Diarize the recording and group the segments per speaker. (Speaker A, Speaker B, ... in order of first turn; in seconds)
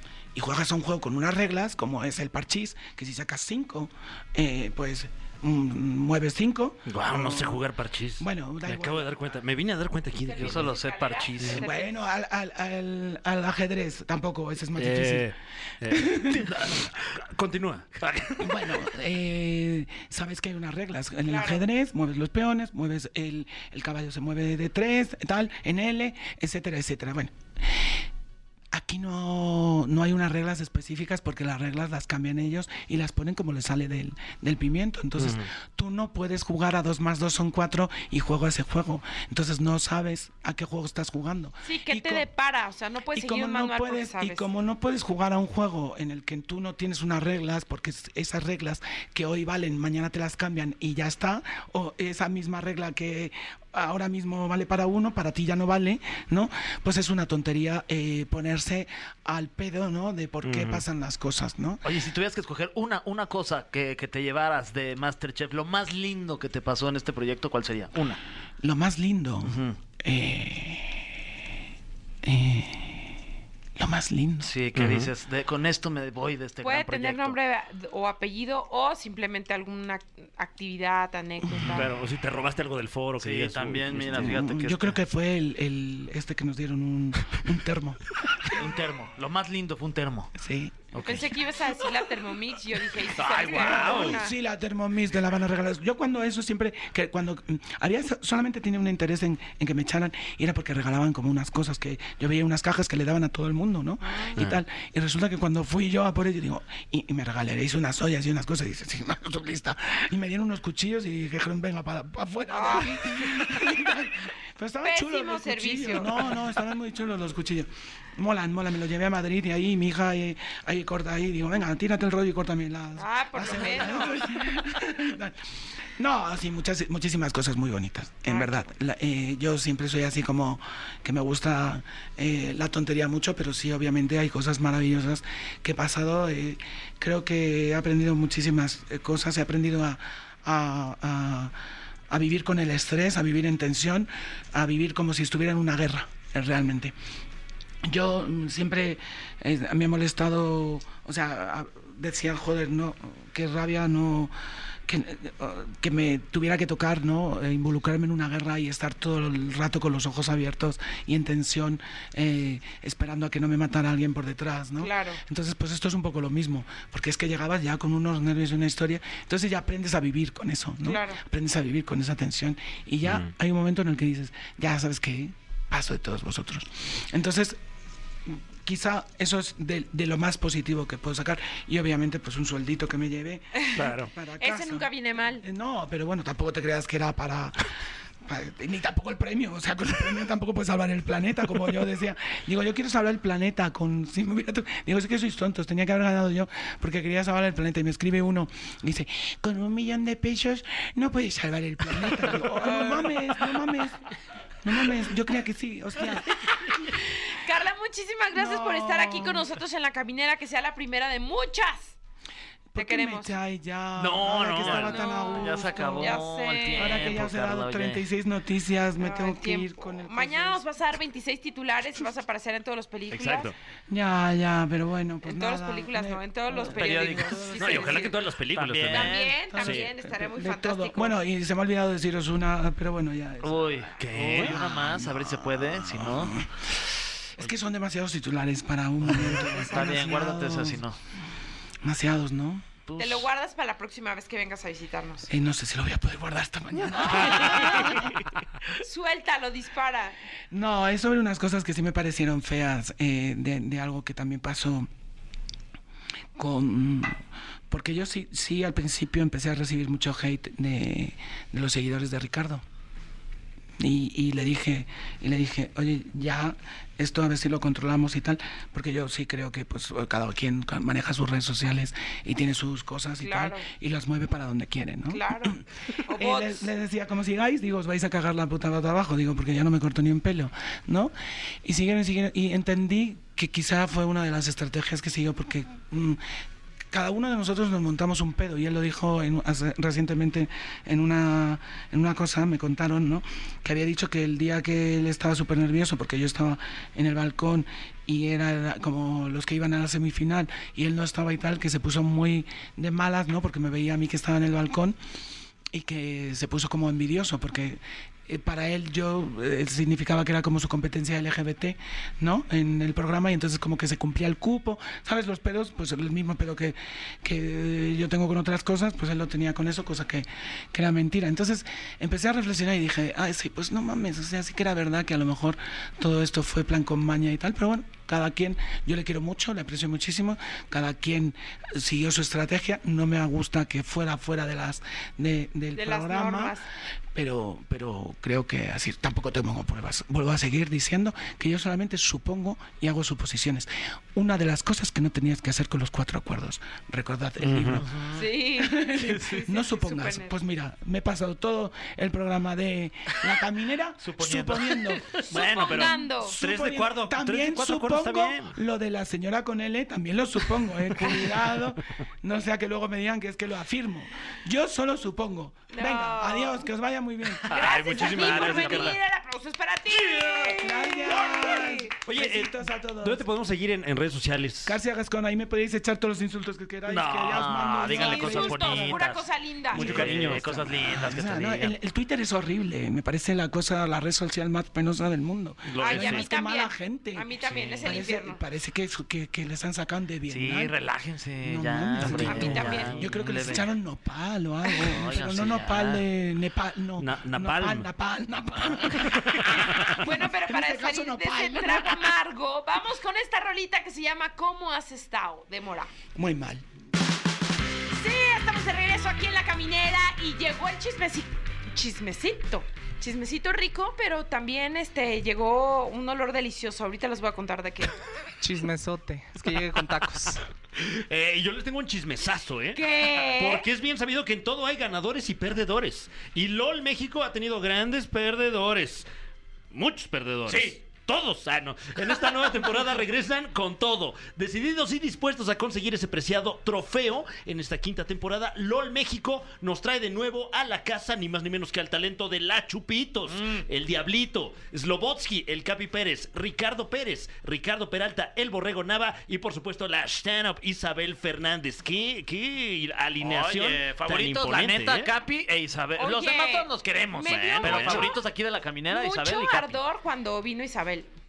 Speaker A: 0.3-7.6, 8.2-9.1, 11.4-16.8, 18.4-28.0, 28.7-42.3, 43.1-61.8, 68.6-71.2, 72.2-73.2, 73.8-74.5, 81.4-81.7, 84.0-88.7, 90.3-91.4, 93.5-141.6, 142.1-146.9, 147.8-154.3, 154.8-177.6, 178.2-187.7, 188.2-206.4, 208.3-209.5, 212.7-220.6, 223.9-228.2, 229.5-240.8, 241.8-242.7, 245.3-248.2, 250.5-254.9, 256.4-262.6, 263.8-281.1, 281.6-286.2, 286.9-305.0, 305.7-336.6, 337.1-347.9, 348.6-355.1, 356.2-367.7, 370.6-373.2, 374.6-379.0, 379.7-387.3, 387.8-390.7, 391.4-402.1, 406.1-406.6
Speaker B: 6.9-7.3, 10.4-11.6, 61.8-68.2, 69.4-69.8, 74.4-77.3, 83.2-85.0, 88.5-90.3, 90.9-91.3, 93.2-94.0, 214.0-218.0, 223.1-223.5, 226.6-227.4, 228.5-229.6, 233.4-236.4, 239.1-241.0, 242.9-243.2, 347.8-348.2, 354.0-355.2, 367.6-368.9, 377.1-381.7, 387.5-387.9, 390.3-393.7, 394.9-396.0, 430.5-430.7, 443.3-443.6, 453.2-459.8
Speaker C: 7.0-10.7, 14.8-18.9, 35.2-35.5, 60.4-60.8, 74.7-75.1, 81.6-84.5, 93.2-94.2, 173.0-173.3, 183.8-184.1, 214.1-215.0, 223.1-223.5, 227.6-229.8, 234.1-234.6, 347.4-347.8, 355.3-358.5, 367.5-369.0, 369.9-370.6, 372.1-374.8, 376.9-377.5, 378.5-378.8, 379.7-380.7, 385.7-386.2, 397.0-397.9, 399.1-400.0, 420.8-429.1, 429.7-455.1, 457.3-458.1
Speaker D: 10.2-12.0, 21.2-21.6, 41.6-44.5, 76.6-81.9, 91.0-94.3, 104.0-104.4, 112.5-113.3, 114.8-116.4, 123.0-124.2, 128.2-128.6, 164.8-165.2, 170.8-171.2, 183.6-183.9, 184.4-185.4, 207.1-211.9, 212.8-213.3, 214.6-217.2, 219.0-223.5, 225.2-228.2, 228.9-231.2, 243.0-245.3, 247.0-248.0, 248.8-250.2, 273.2-273.6, 275.1-276.7, 335.8-336.6, 348.1-350.4, 355.2-356.4, 365.7-366.7, 367.5-371.9, 377.8-379.8, 385.8-388.4, 392.0-392.9, 399.9-405.9, 407.9-417.9, 422.7-423.7, 456.0-458.2, 458.9-461.1
Speaker E: 418.4-420.4